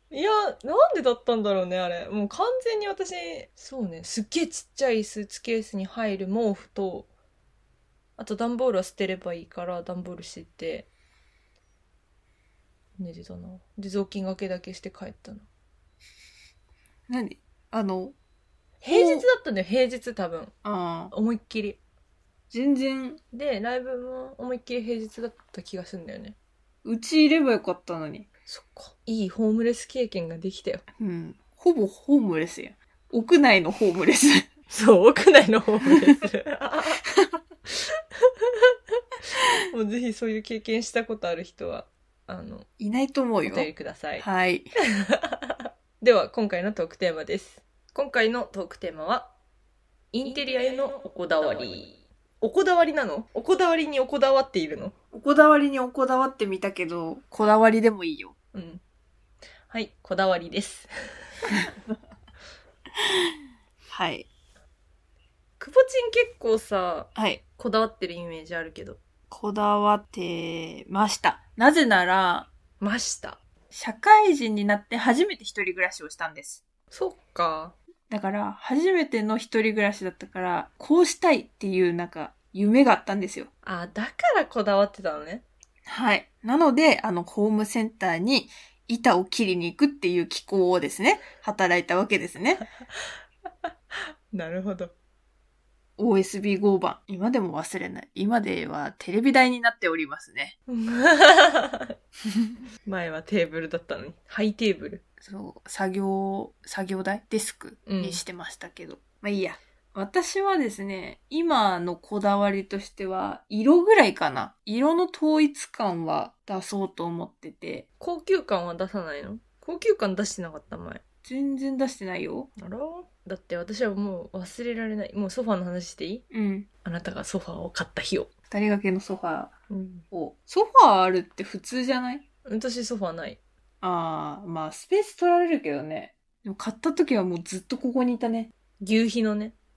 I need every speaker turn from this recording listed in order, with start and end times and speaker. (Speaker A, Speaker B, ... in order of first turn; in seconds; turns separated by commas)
Speaker A: 0.1-7.1, Speaker A: 8.2-10.9, Speaker A: 13.0-15.5, Speaker B: 17.1-18.2, Speaker A: 18.8-20.5, Speaker B: 18.9-19.3, Speaker B: 20.6-21.1, Speaker A: 21.1-21.8, Speaker B: 22.5-23.2, Speaker A: 23.3-26.4, Speaker B: 26.8-28.3, Speaker A: 28.5-30.9, Speaker B: 31.0-34.5, Speaker A: 34.7-37.0, Speaker A: 39.7-42.7, Speaker B: 42.8-44.7, Speaker A: 43.4-44.3, Speaker A: 45.1-49.3, Speaker A: 50.1-55.0, Speaker B: 50.2-51.0, Speaker B: 55.1-58.3, Speaker A: 58.5-58.8, Speaker A: 59.7-60.9, Speaker B: 63.9-64.3, Speaker A: 65.6-69.0, Speaker B: 67.2-67.4, Speaker B: 69.3-72.5, Speaker A: 72.8-73.4, Speaker B: 73.7-76.6, Speaker A: 76.9-77.8, Speaker B: 78.1-83.5, Speaker A: 83.6-85.5, Speaker B: 85.9-92.6, Speaker A: 93.7-94.9, Speaker B: 96.0-100.6, Speaker A: 100.7-101.9, Speaker A: 102.9-105.0, Speaker B: 105.2-117.9, Speaker A: 107.9-108.2, Speaker A: 118.0-121.0, Speaker B: 121.2-122.5, Speaker A: 122.6-126.2, Speaker B: 126.3-126.7, Speaker A: 126.8-128.3, Speaker B: 128.5-129.5, Speaker A: 129.7-130.1, Speaker B: 130.1-132.2, Speaker A: 132.5-133.4, Speaker B: 133.8-138.5, Speaker A: 138.8-139.6